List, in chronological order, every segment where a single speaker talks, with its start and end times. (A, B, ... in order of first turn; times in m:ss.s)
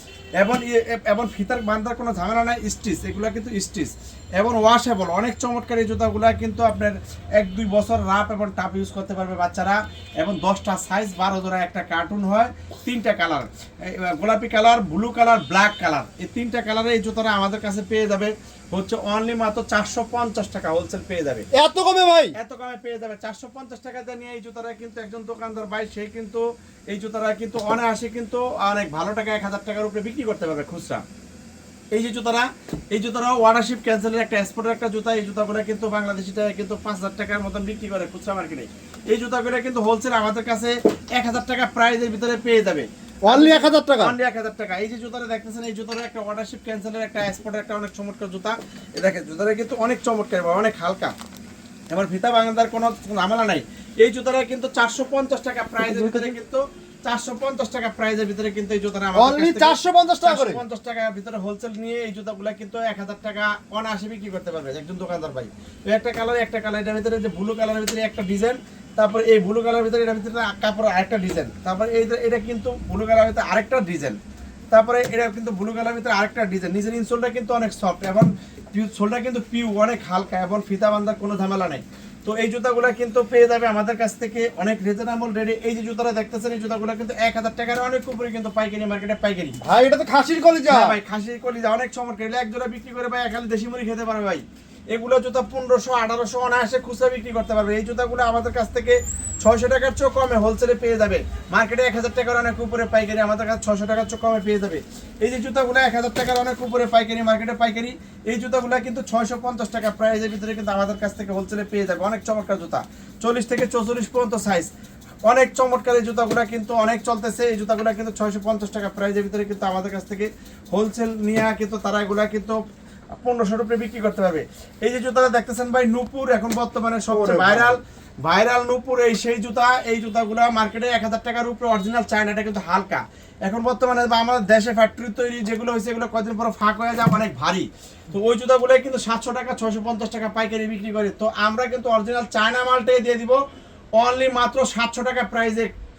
0:00.4-0:21.4 A
0:21.5-0:22.3 B
0:22.3-0:31.0 A
0:31.9-0:51.1 A
0:43.2-0:44.1 B
0:51.9-1:14.2 A
0:55.8-0:56.3 B
0:59.1-1:00.6 B
1:14.7-1:29.6 A
1:29.6-1:31.0 B
1:30.7-1:54.7 A
1:55.2-2:02.6 A
2:03.2-2:23.4 A
2:07.1-2:07.8 B
2:24.0-2:25.7 A